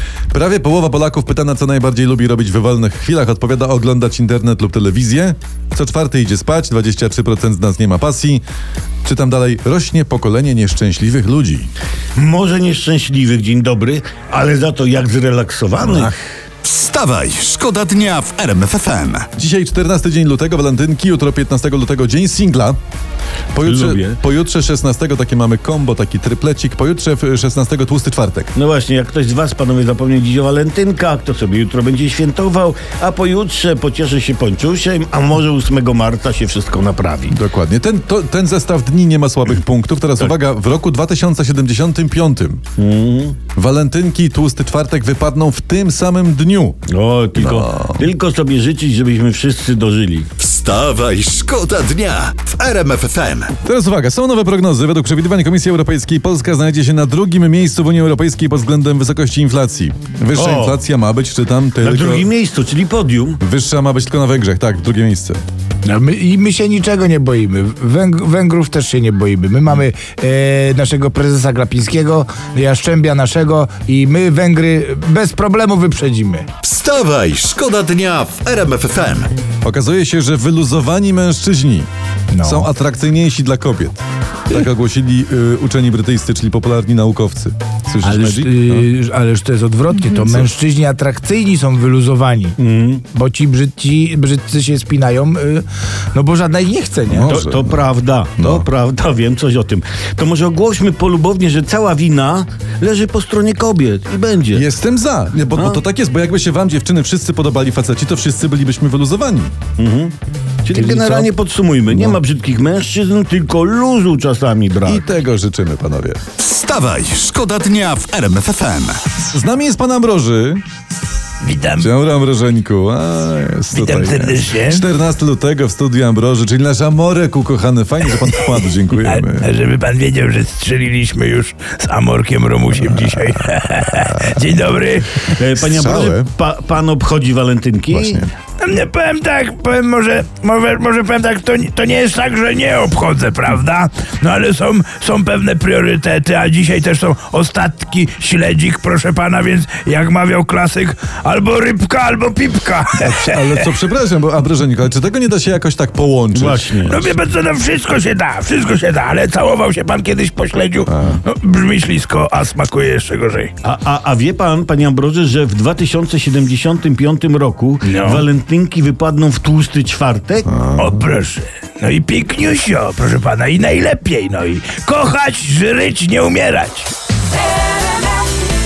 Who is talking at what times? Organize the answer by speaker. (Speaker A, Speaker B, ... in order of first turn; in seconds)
Speaker A: 0.3-8.4, 9.0-11.7, 15.9-16.1, 19.4-22.8, 23.5-28.5, 37.3-42.6, 43.5-46.8, 47.4-48.0, 53.6-62.2, 63.4-65.4, 79.6-81.9, 82.4-88.9, 90.2-90.5, 97.1-97.8, 98.4-98.7, 104.5-109.5, 114.8-116.2, 119.2-120.6, 121.8-129.5, 132.7-134.7, 135.5-136.3, 137.9-138.3, 152.9-156.7, 160.8-161.2, 170.5-171.1
Speaker B: 12.1-16.2, 23.6-24.2, 28.6-37.3, 42.8-43.4, 46.9-50.3, 60.3-60.8, 61.8-63.4, 92.6-93.0, 97.3-104.6, 109.8-115.0, 135.4-138.2, 156.3-157.1, 163.6-170.5
Speaker C: 16.6-19.3, 50.4-53.5, 76.6-79.3, 116.4-119.1
Speaker D: 65.8-76.5, 82.3-82.7, 88.0-92.6, 93.1-97.4, 110.7-111.3, 111.9-112.2
Speaker E: 121.4-121.9, 123.7-124.8, 128.9-135.2, 138.6-153.6, 156.8-163.5, 167.8-168.2, 170.8-176.9, 177.6-178.2